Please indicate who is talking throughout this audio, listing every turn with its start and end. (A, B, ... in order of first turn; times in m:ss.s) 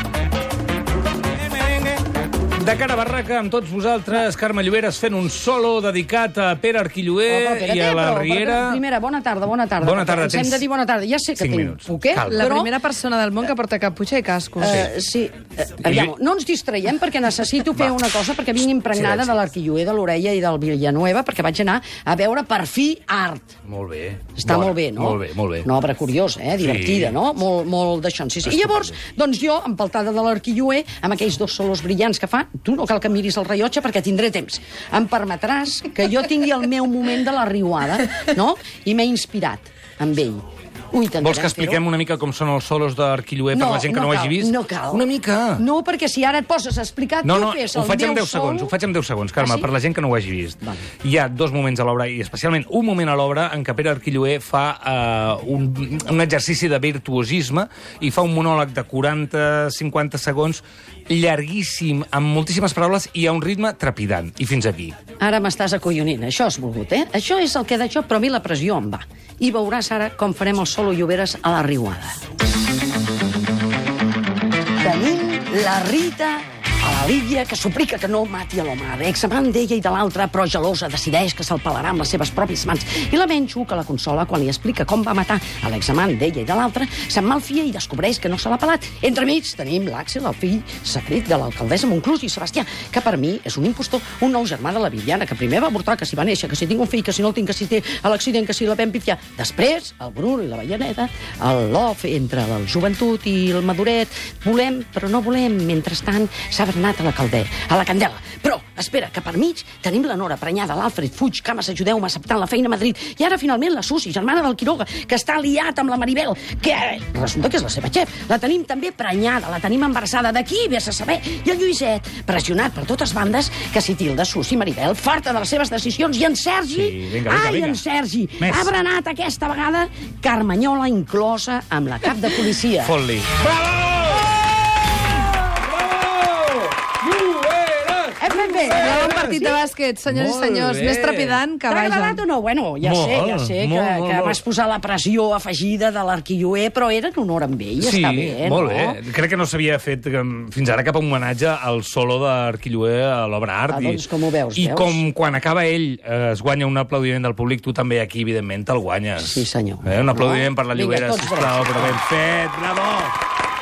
0:01.4-0:02.0 A
0:02.6-0:08.8 A
0:07.3-0:12.7 B
0:09.8-0:10.6 A
0:11.4-0:12.5 A
0:12.3-0:14.8 C
0:14.6-0:23.5 B
0:15.9-0:16.1 A
0:18.9-0:19.4 A
0:23.7-0:25.7 A
0:24.4-0:41.8 B
0:26.6-0:27.1 A
0:28.5-0:28.9 A
0:41.2-0:45.6 A
0:43.5-0:45.1 B
0:45.6-0:48.7 B
0:47.2-1:05.0 A
0:49.4-0:49.7 B
1:05.2-1:12.2 B
1:14.8-2:13.0 B
2:06.7-2:07.8 A
2:08.4-2:08.7 A
2:12.8-2:14.3 A
2:15.6-2:19.5 A
2:18.2-2:19.4 B
2:18.6-2:22.2 C
2:20.1-2:21.4 A
2:21.7-2:29.0 B
2:22.8-2:24.4 A
2:27.8-2:34.0 A
2:33.7-2:35.0 B
2:34.6-2:43.2 A
2:39.2-2:42.0 B